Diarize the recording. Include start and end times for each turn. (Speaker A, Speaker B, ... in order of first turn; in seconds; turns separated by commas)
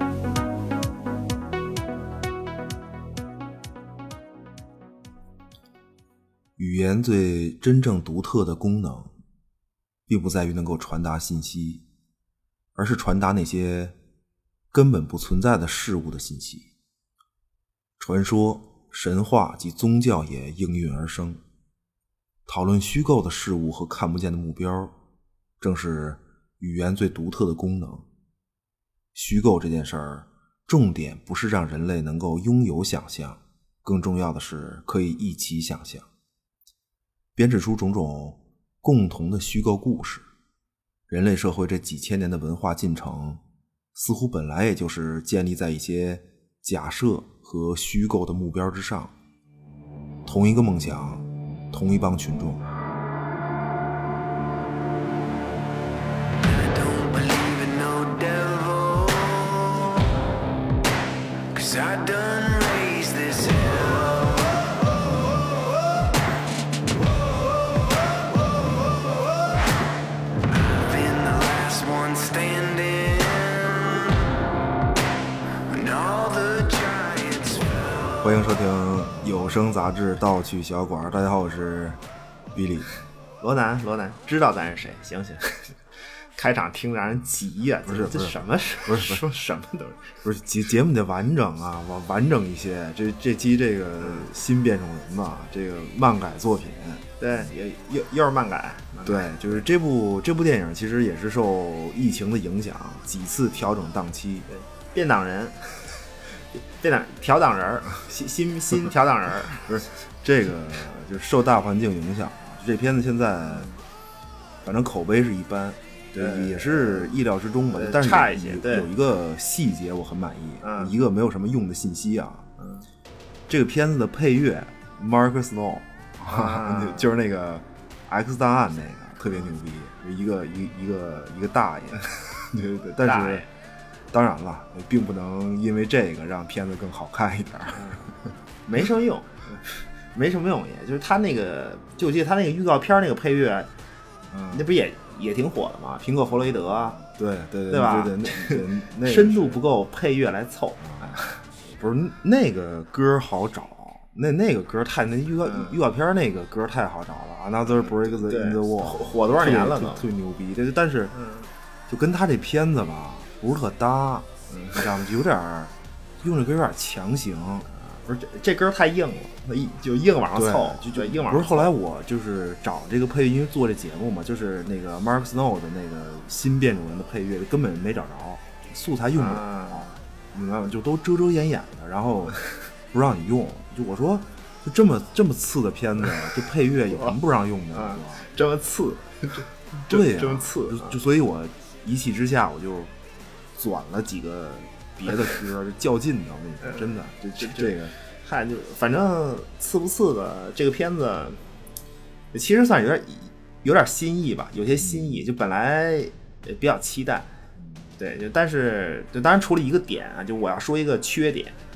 Speaker A: 6.6-9.1, Speaker A: 10.1-11.8, Speaker A: 12.8-14.0, Speaker A: 14.7-16.7, Speaker A: 18.0-21.4, Speaker A: 22.5-24.9, Speaker A: 25.6-28.1, Speaker A: 29.1-36.1, Speaker A: 37.4-40.2, Speaker A: 41.1-43.4, Speaker A: 44.0-49.1, Speaker A: 50.3-52.7, Speaker B: 56.4-60.1, Speaker B: 61.5-65.6, Speaker B: 67.3-69.1, Speaker B: 70.5-74.4, Speaker B: 75.7-78.2, Speaker A: 78.2-82.0, Speaker A: 82.5-83.0, Speaker C: 83.4-85.7, Speaker C: 86.4-90.2, Speaker A: 87.9-89.2, Speaker A: 90.2-97.0, Speaker C: 94.0-94.3, Speaker C: 97.2-99.7, Speaker A: 99.0-104.5, Speaker C: 104.5-105.6, Speaker C: 106.8-109.6, Speaker A: 109.5-113.7, Speaker C: 113.5-113.8, Speaker A: 114.6-122.5, Speaker C: 116.2-117.1, Speaker C: 117.7-118.9, Speaker C: 120.6-120.9, Speaker C: 122.6-122.9, Speaker A: 123.5-133.4, Speaker C: 126.3-127.1, Speaker C: 133.0-133.5, Speaker A: 134.1-138.1, Speaker C: 137.7-138.0, Speaker C: 138.7-139.4, Speaker C: 140.1-143.7, Speaker A: 144.3-144.7, Speaker C: 144.5-147.0, Speaker A: 146.5-149.6, Speaker C: 147.7-151.4, Speaker A: 150.8-161.1, Speaker C: 155.4-155.7, Speaker C: 157.7-160.0, Speaker C: 161.1-161.5, Speaker A: 161.9-167.7, Speaker C: 167.7-171.7, Speaker A: 170.3-188.3, Speaker C: 179.2-179.9, Speaker C: 187.7-191.0, Speaker A: 189.9-192.9, Speaker A: 193.6-197.9, Speaker C: 196.6-201.4, Speaker C: 202.3-207.3, Speaker A: 204.8-205.2, Speaker A: 207.6-207.9, Speaker C: 208.0-211.6